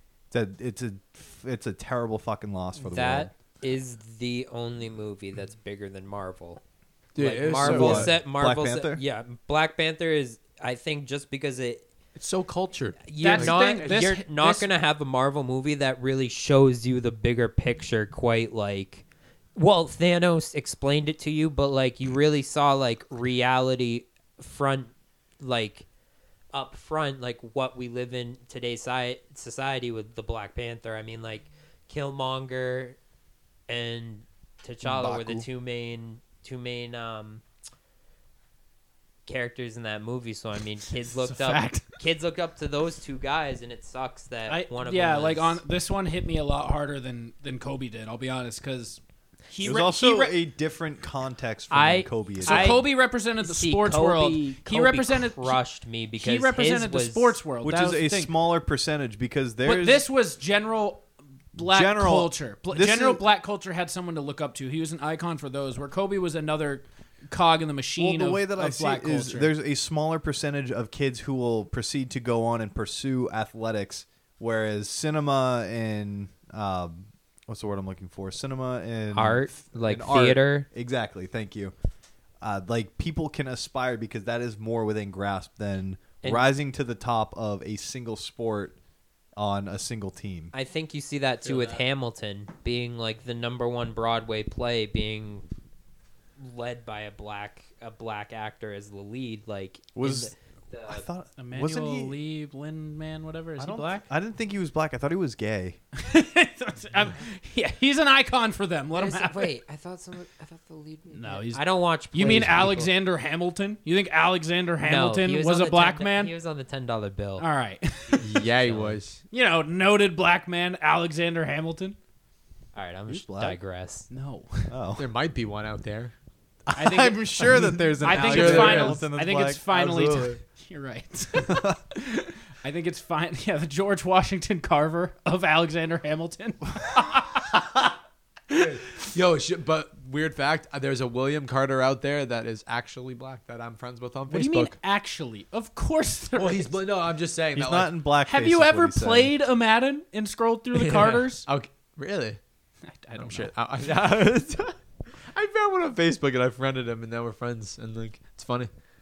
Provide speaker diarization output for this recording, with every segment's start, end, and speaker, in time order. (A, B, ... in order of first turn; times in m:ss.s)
0:00.3-0:03.3 A
0:02.8-0:06.6 B
0:07.2-0:08.2 C
0:07.2-0:11.9 B
0:07.6-0:09.0 A
0:12.2-0:14.1 C
0:13.0-0:19.0 B
0:13.2-0:14.7 D
0:19.6-0:25.9 B
0:26.5-0:33.0 B
0:33.7-0:37.4 B
0:34.9-0:35.4 A
0:39.3-0:45.6 B
0:41.1-0:41.9 D
0:44.5-0:50.4 D
0:49.6-0:52.8 A
0:51.7-0:57.4 B
0:52.4-0:55.6 D
0:56.2-0:58.3 D
0:57.6-1:00.0 A
0:59.6-1:09.5 D
1:01.6-1:03.2 A
1:08.0-1:21.7 A
1:19.1-1:20.7 B
1:22.4-1:28.8 A
1:26.2-1:26.5 B
1:29.4-1:30.5 A
1:30.5-1:35.5 B
1:31.4-1:31.8 C
1:36.4-1:41.1 B
1:40.0-1:40.3 A
1:40.9-1:42.2 A
1:41.4-1:44.1 D
1:43.6-1:45.8 A
1:46.0-1:49.5 D
1:48.9-1:52.9 B
1:51.1-1:56.3 D
1:52.2-1:52.8 C
1:54.8-1:57.5 B
1:57.4-1:58.5 D
1:58.2-1:59.2 C
1:58.5-1:59.0 B
1:59.3-2:02.0 D
2:02.8-2:04.1 B
2:03.1-2:03.6 A
2:04.1-2:04.7 D
2:04.7-2:05.0 A
2:05.0-2:06.1 C
2:06.7-2:09.8 A
2:06.8-2:17.8 D
2:08.0-2:09.0 C
2:09.7-2:10.4 C
2:11.4-2:11.8 A
2:18.5-2:24.8 C
2:24.3-2:26.8 D
2:26.4-2:27.9 C
2:27.5-2:29.3 A
2:28.3-2:31.5 D
2:30.7-2:32.4 C
2:32.9-2:33.5 D
2:33.2-2:38.7 C